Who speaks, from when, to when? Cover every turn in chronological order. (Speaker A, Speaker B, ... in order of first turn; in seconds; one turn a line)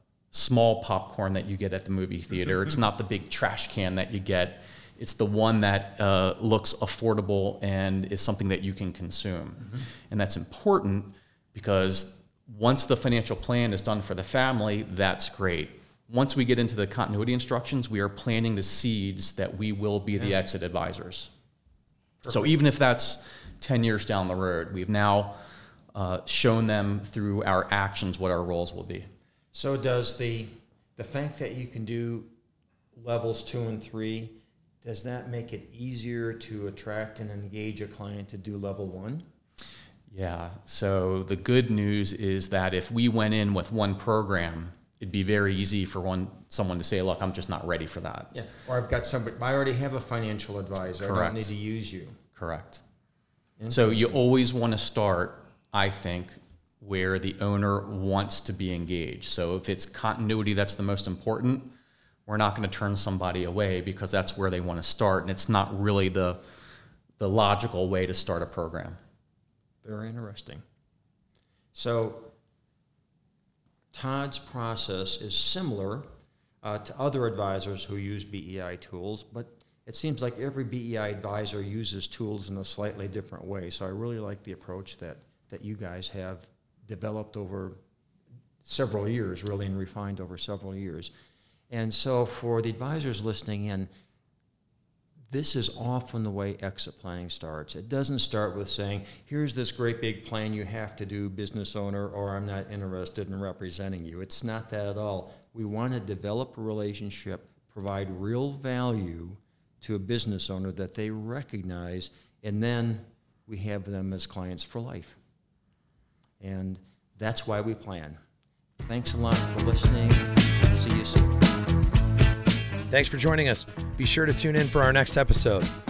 Speaker A: 0.3-21.3
Speaker B: 22.2-22.6
Speaker A: 22.3-25.4
Speaker A: 25.9-29.1
Speaker B: 29.5-32.3
Speaker B: 33.0-39.2
Speaker A: 40.1-48.3
Speaker B: 48.3-52.2
Speaker A: 51.0-51.5
Speaker A: 52.4-52.8
Speaker B: 53.6-54.2
Speaker A: 53.7-61.7
Speaker A: 62.3-66.4
Speaker A: 67.2-69.0
Speaker B: 69.8-70.6
Speaker B: 71.7-72.3
Speaker B: 73.9-76.1
Speaker B: 76.6-87.8
Speaker B: 88.6-91.1
Speaker B: 91.7-93.9
Speaker B: 95.3-115.2
Speaker B: 116.4-118.2
Speaker B: 118.8-121.5
Speaker C: 122.9-125.8